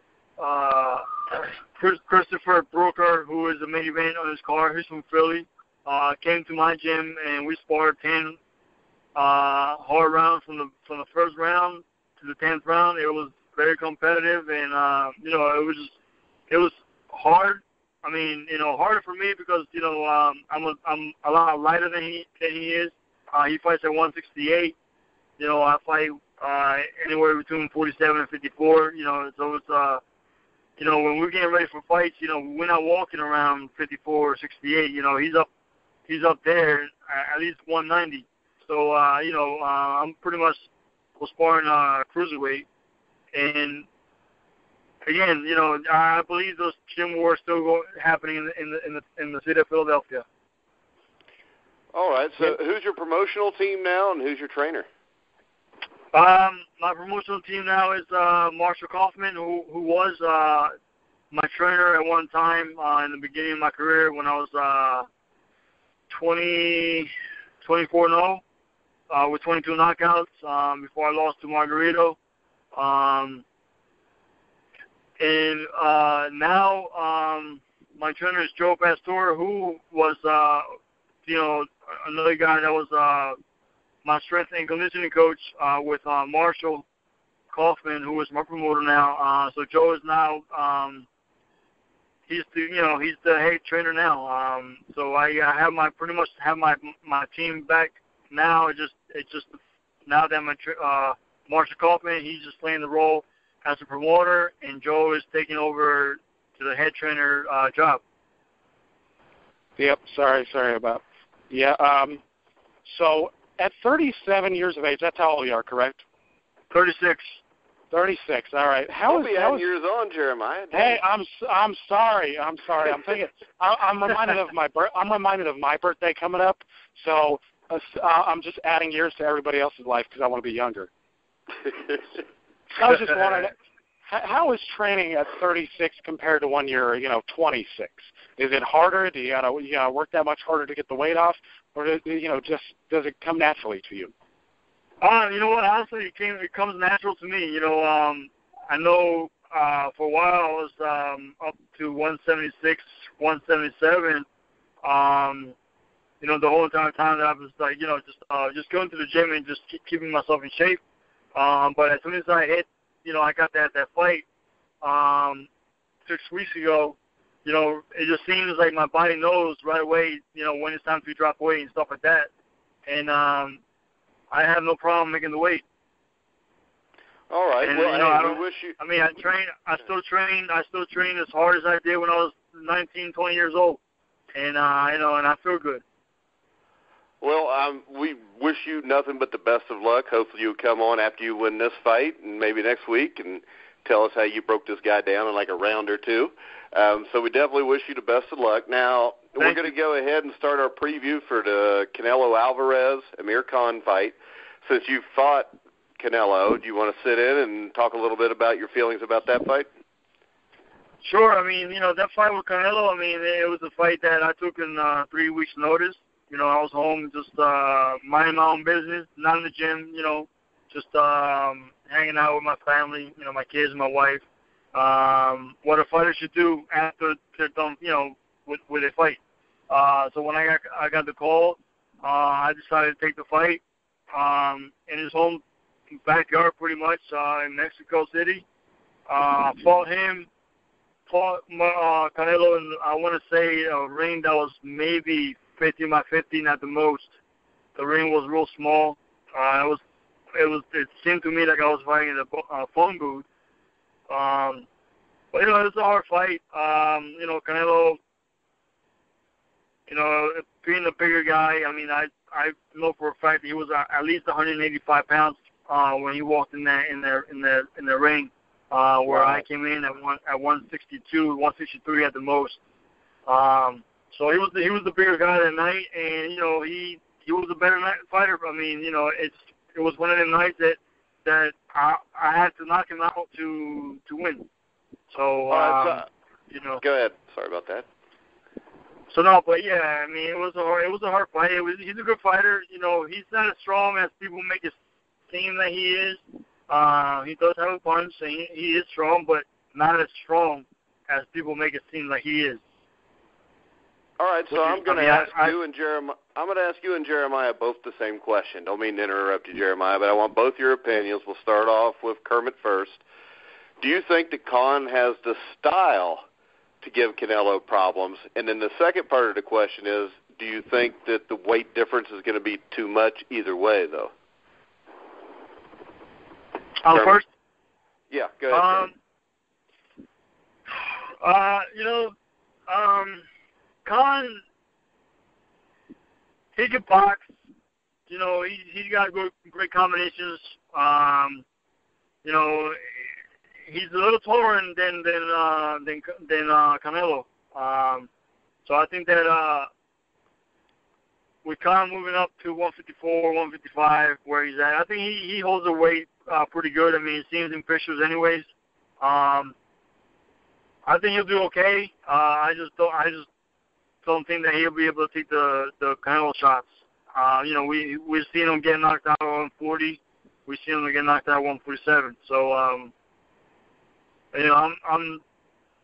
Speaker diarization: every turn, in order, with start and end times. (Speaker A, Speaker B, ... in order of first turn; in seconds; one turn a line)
Speaker A: 0.4-8.4
Speaker A: 9.2-15.9
Speaker A: 16.5-24.8
Speaker A: 25.4-30.0
Speaker A: 30.8-35.5
Speaker A: 36.1-40.7
Speaker A: 41.2-42.7
Speaker A: 43.3-43.9
Speaker A: 45.0-50.2
Speaker B: 51.9-54.9
Speaker A: 56.1-60.7
Speaker A: 61.3-65.1
Speaker A: 66.1-67.1
Speaker A: 67.6-68.4
Speaker A: 69.1-72.2
Speaker A: 72.7-73.4
Speaker A: 75.2-80.7
Speaker A: 81.2-83.4
Speaker A: 84.0-86.8
Speaker A: 87.5-91.1
Speaker A: 92.3-108.0
Speaker C: 109.8-112.2
Speaker C: 112.8-116.0
Speaker A: 116.7-117.4
Speaker C: 117.9-119.7
Speaker B: 119.1-121.0
Speaker C: 120.7-130.9
Speaker C: 132.7-133.6
Speaker C: 134.1-144.1
Speaker A: 145.0-154.3
Speaker A: 154.8-155.6
Speaker A: 156.2-160.8
Speaker A: 161.3-164.2
Speaker A: 164.8-165.5
Speaker A: 166.1-172.3
Speaker A: 172.9-173.6
Speaker A: 174.3-175.6
Speaker B: 177.3-178.8
Speaker A: 177.6-183.8
Speaker A: 184.3-185.8
Speaker B: 187.2-209.7
Speaker A: 199.4-199.7
Speaker A: 211.0-238.4
Speaker A: 239.1-240.3
Speaker A: 241.1-247.1
Speaker A: 247.8-249.8
Speaker A: 250.3-253.3
Speaker A: 254.1-254.7
Speaker A: 255.3-258.0
Speaker A: 259.9-272.6
Speaker A: 273.3-284.5
Speaker A: 285.1-286.8
Speaker B: 285.5-286.1
Speaker B: 286.8-287.9
Speaker A: 289.1-294.8
Speaker A: 295.3-302.6
Speaker B: 304.2-313.0
Speaker A: 304.5-305.6
Speaker B: 313.8-316.2
Speaker B: 316.8-324.1
Speaker A: 326.8-327.3
Speaker B: 326.9-327.2
Speaker B: 328.1-328.9
Speaker A: 328.5-328.9
Speaker A: 331.2-332.1
Speaker A: 332.7-333.2
Speaker A: 333.9-334.4
Speaker A: 336.6-337.3
Speaker A: 338.1-341.4
Speaker A: 342.2-343.1
Speaker A: 343.7-348.1
Speaker A: 348.6-349.7
Speaker A: 351.4-358.5
Speaker A: 359.0-359.6
Speaker A: 360.9-363.3
Speaker A: 364.0-372.9
Speaker A: 374.3-375.2